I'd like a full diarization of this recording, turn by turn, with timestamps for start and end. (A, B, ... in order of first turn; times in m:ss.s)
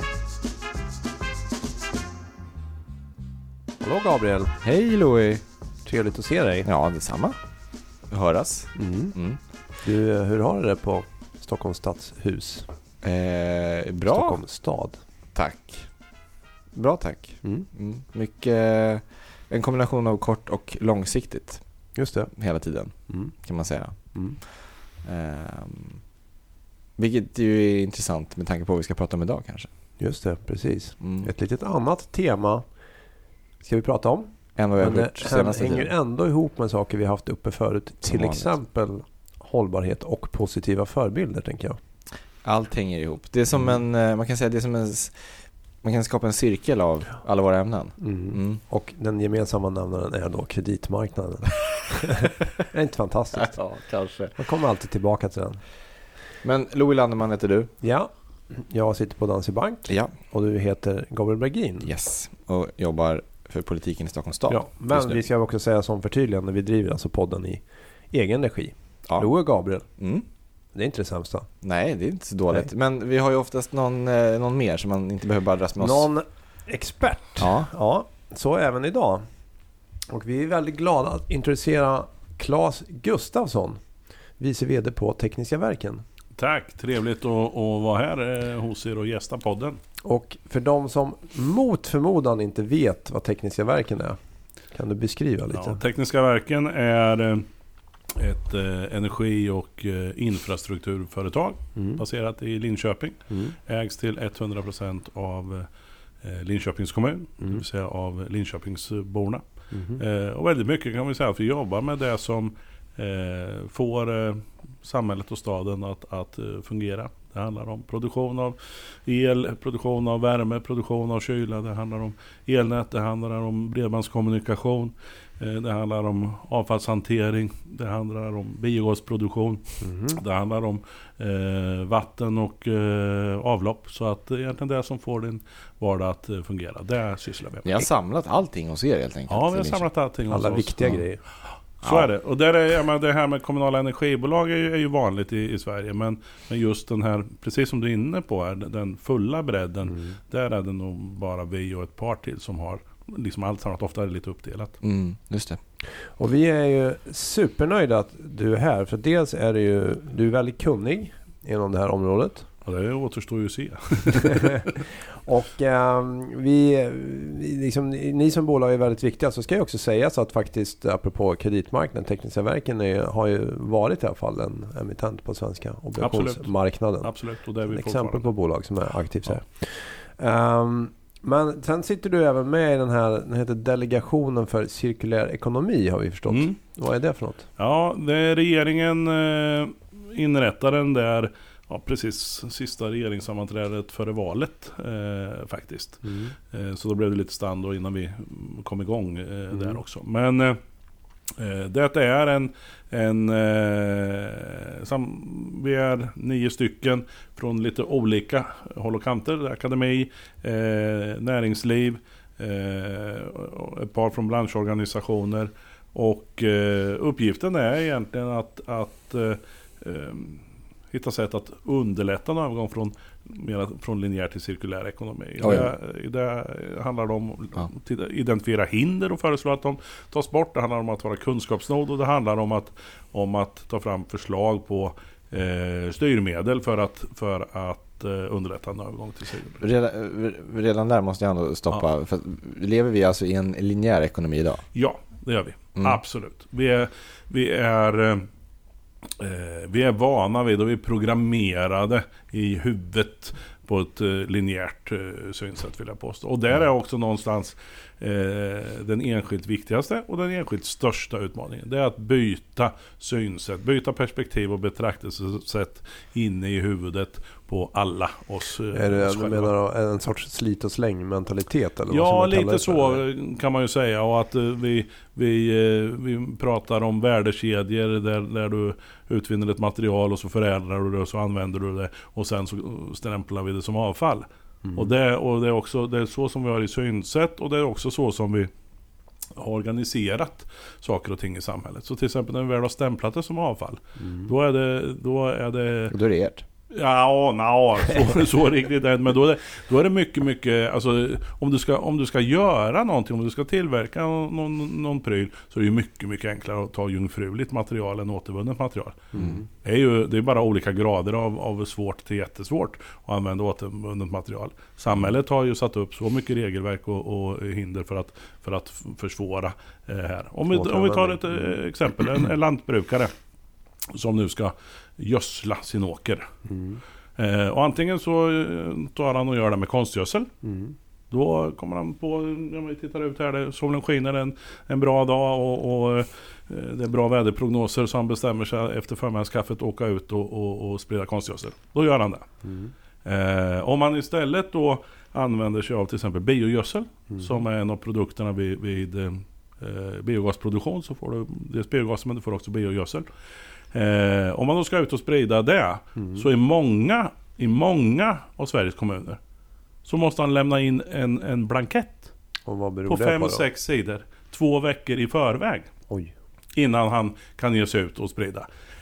0:03.8-0:04.5 A
0:04.6-0:05.4 B
0:05.8-0:06.6 A
0:06.6-0:07.4 B
0:08.1-0:09.4 B
0:08.8-0:09.2 A
0:09.8-0:12.7 A
0:13.0-0:14.4 B
0:14.1-0:15.0 A
0:15.3-0:16.0 B
0:16.7-0:21.7 B
0:22.0-0:22.3 A
0:22.3-0:26.0 B
0:23.1-0:23.3 A
0:24.1-0:24.4 A
0:27.0-0:29.7 B
0:30.0-0:32.6 A
0:31.0-0:31.3 B
0:33.6-0:41.8 A
0:34.6-0:35.9 B
0:38.0-0:38.5 B
0:42.4-0:48.6 B
0:48.0-0:53.6 A
0:53.3-0:54.4 B
0:54.4-0:55.6 A
0:56.4-0:57.7 B
0:57.8-1:01.9 A
0:59.9-1:00.2 B
1:01.8-1:05.2 B
1:04.5-1:09.9 A
1:09.1-1:09.3 B
1:10.0-1:10.2 B
1:10.7-1:11.5 A
1:11.6-1:16.1 B
1:15.8-1:19.2 A
1:17.4-1:17.7 B
1:20.1-1:23.8 A
1:24.4-1:26.0 A
1:26.4-1:29.8 C
1:30.0-1:34.2 A
1:34.7-1:35.8 A
1:35.5-1:37.5 C
1:38.2-1:45.7 C
1:41.8-1:42.0 A
1:43.3-1:43.6 A
1:46.2-1:49.4 C
1:49.7-1:50.0 A
1:50.0-2:17.7 C
2:09.8-2:10.2 A
2:17.6-2:19.8 B
2:19.3-2:21.0 C
2:20.3-2:21.2 A
2:21.8-2:34.8 C
2:21.8-2:22.1 B
2:29.9-2:30.1 A
2:34.8-2:35.6 B
2:36.0-2:42.5 A
2:42.6-2:44.7 C
2:44.2-2:44.7 A
2:45.2-2:57.1 A
2:56.0-2:56.5 C
2:57.0-2:58.3 C
2:57.7-3:07.5 A
3:06.3-3:06.6 C
3:07.6-3:20.6 C
3:16.0-3:16.3 A
3:19.5-3:19.8 A
3:21.4-3:59.6 C
3:45.4-3:45.7 B
3:59.6-4:04.6 B
4:04.7-4:08.3 C
4:09.2-4:29.5 C
4:28.7-4:33.0 A
4:31.9-4:48.5 C
4:44.6-4:44.9 A
4:49.4-4:55.9 C
4:54.0-4:54.3 A
4:55.9-4:56.4 B
4:56.7-5:23.1 C
5:09.1-5:09.4 A
5:20.5-5:21.6 A
5:23.9-5:26.3 C
5:26.4-5:26.8 A
5:27.2-5:30.3 C
5:30.4-5:30.8 A
5:31.1-5:42.3 C
5:42.4-5:42.7 A
5:43.0-5:53.0 C
5:53.7-5:59.2 C
5:56.0-5:56.2 A
5:59.8-6:02.1 C
6:02.4-6:03.4 A
6:02.9-6:05.7 C
6:05.9-6:06.1 A
6:06.5-6:08.5 C